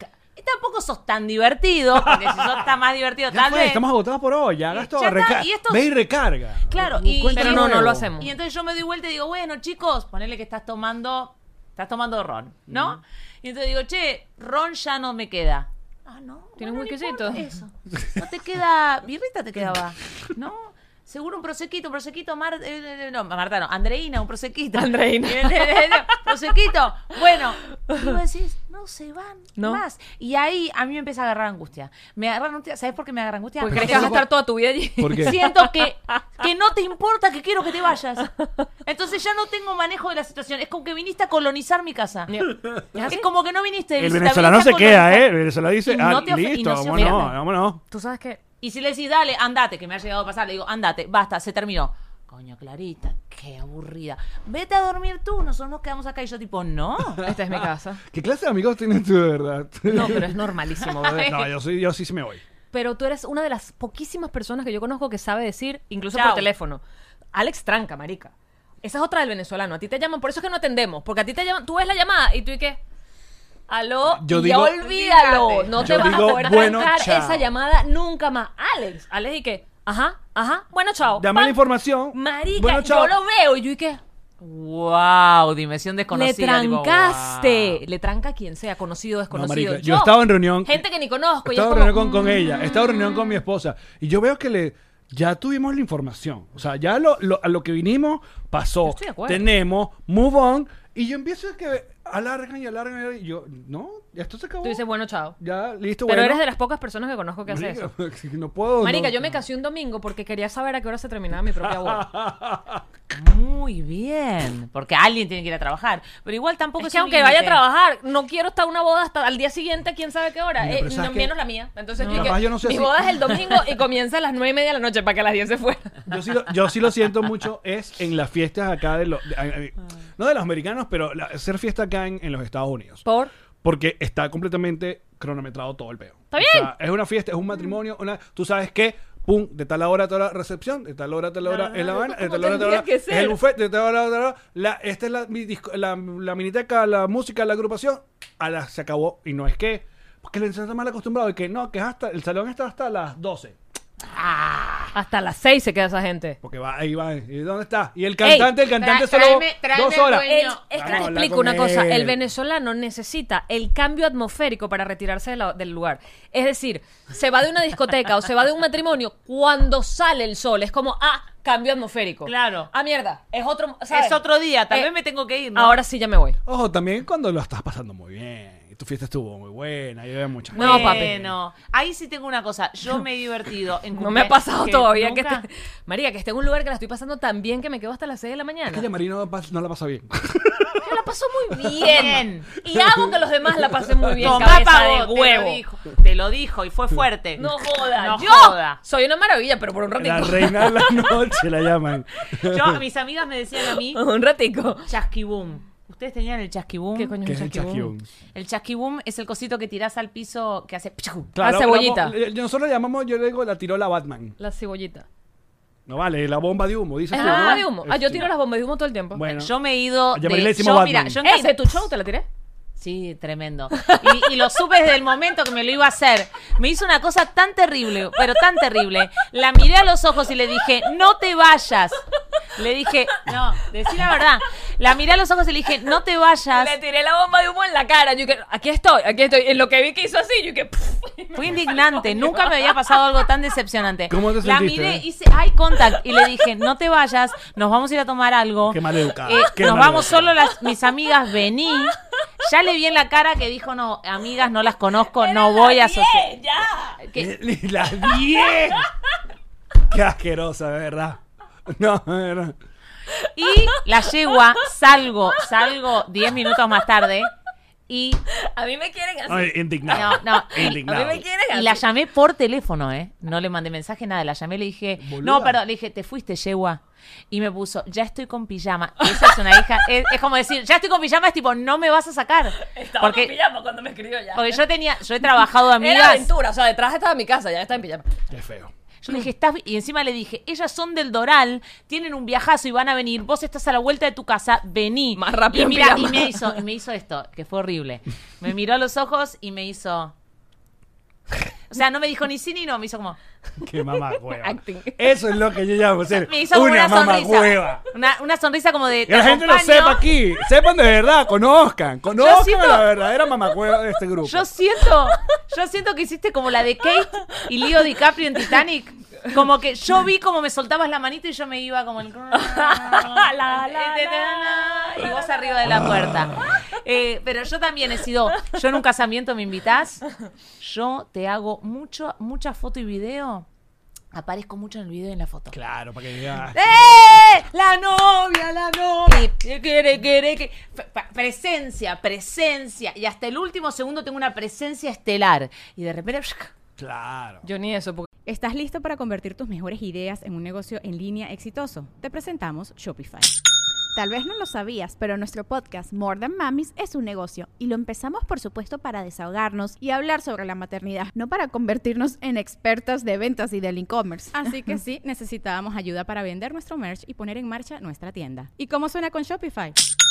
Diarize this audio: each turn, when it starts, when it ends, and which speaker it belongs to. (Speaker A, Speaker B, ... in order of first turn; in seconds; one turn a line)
Speaker A: 0.3-3.8
Speaker B: 1.9-2.6
Speaker B: 3.3-8.1
Speaker A: 4.7-5.9
Speaker A: 6.7-34.2
Speaker C: 7.2-8.3
Speaker B: 12.7-13.0
Speaker C: 16.6-17.4
Speaker C: 24.7-26.2
Speaker C: 27.7-28.1
Speaker C: 29.6-29.8
Speaker C: 33.6-36.5
Speaker B: 33.7-34.3
Speaker B: 35.0-35.4
Speaker A: 35.2-38.3
Speaker C: 38.2-38.6
Speaker A: 38.9-42.3
Speaker C: 42.3-43.3
Speaker B: 42.6-43.0
Speaker A: 43.1-45.3
Speaker B: 44.0-47.8
Speaker A: 45.8-47.3
Speaker C: 46.9-48.4
Speaker A: 48.6-57.2
Speaker C: 57.2-58.0
Speaker B: 57.2-60.4
Speaker C: 59.9-61.4
Speaker A: 61.0-61.5
Speaker B: 61.0-62.4
Speaker C: 62.7-66.8
Speaker A: 66.1-66.5
Speaker C: 67.3-72.8
Speaker C: 73.7-81.6
Speaker B: 74.1-74.8
Speaker A: 74.8-76.9
Speaker B: 75.8-77.5
Speaker B: 81.2-83.1
Speaker C: 82.1-84.0
Speaker A: 84.4-87.8
Speaker C: 86.1-92.5
Speaker B: 89.3-90.8
Speaker B: 91.4-104.8
Speaker C: 98.8-99.4
Speaker C: 104.6-105.3
Speaker B: 105.4-106.4
Speaker C: 106.1-107.9
Speaker B: 107.5-109.3
Speaker C: 108.8-112.0
Speaker B: 111.6-112.8
Speaker A: 113.1-117.6
Speaker C: 116.8-126.0
Speaker B: 120.6-121.3
Speaker A: 122.0-122.4
Speaker B: 122.0-123.1
Speaker B: 126.1-133.0
Speaker C: 133.0-133.3
Speaker B: 133.6-153.6
Speaker C: 136.3-136.7
Speaker C: 141.4-143.4
Speaker A: 154.1-154.9
Speaker C: 154.9-156.4
Speaker B: 156.4-162.2
Speaker C: 158.2-158.5
Speaker A: 158.7-161.1
Speaker C: 160.2-174.9
Speaker A: 172.2-172.7
Speaker A: 173.9-175.8
Speaker C: 175.5-176.4
Speaker B: 176.4-181.3
Speaker C: 180.5-181.1
Speaker A: 180.5-185.4
Speaker C: 183.9-188.8
Speaker B: 188.7-191.0
Speaker C: 190.8-195.6
Speaker A: 191.8-192.5
Speaker B: 192.7-194.5
Speaker A: 194.2-197.4
Speaker C: 197.4-201.1
Speaker A: 198.0-198.8
Speaker B: 200.0-202.8
Speaker A: 202.4-204.0
Speaker C: 203.7-204.9
Speaker A: 204.9-207.2
Speaker C: 206.9-207.9
Speaker B: 207.2-208.1
Speaker A: 208.3-211.3
Speaker B: 211.3-214.3
Speaker C: 211.4-212.2
Speaker C: 214.4-215.1
Speaker B: 215.9-218.3
Speaker C: 217.1-219.2
Speaker A: 217.1-217.7
Speaker B: 219.1-219.5
Speaker A: 219.3-221.8
Speaker B: 220.1-221.2
Speaker C: 221.2-222.2
Speaker A: 222.8-232.0
Speaker C: 223.7-224.1
Speaker A: 232.6-236.7
Speaker C: 236.5-243.0
Speaker A: 241.3-256.2
Speaker B: 244.1-245.0
Speaker B: 248.7-250.3
Speaker C: 255.2-257.0
Speaker A: 257.0-257.3
Speaker B: 257.1-258.9
Speaker B: 259.9-262.6
Speaker C: 263.1-264.1
Speaker A: 263.4-267.3
Speaker A: 267.9-268.2
Speaker C: 268.4-271.8
Speaker B: 269.3-271.2
Speaker A: 269.9-270.8
Speaker A: 271.5-283.3
Speaker B: 275.0-275.6
Speaker C: 282.6-284.6
Speaker A: 284.3-286.3
Speaker C: 285.7-288.1
Speaker B: 288.3-288.7
Speaker A: 289.0-300.1
Speaker C: 295.1-296.6
Speaker A: 301.7-303.2
Speaker B: 303.6-307.8
Speaker C: 304.3-305.0
Speaker A: 306.2-310.0
Speaker B: 309.1-314.4
Speaker A: 312.1-312.9
Speaker A: 314.2-330.0
Speaker C: 322.3-325.6
Speaker B: 325.7-326.3
Speaker A: 330.6-333.4
Speaker A: 334.1-335.6
Speaker B: 335.5-337.2
Speaker A: 336.5-346.5
Speaker B: 346.8-347.4
Speaker C: 347.4-348.1
Speaker D: 348.2-353.3
Speaker E: 353.9-364.4
Speaker D: 364.4-369.8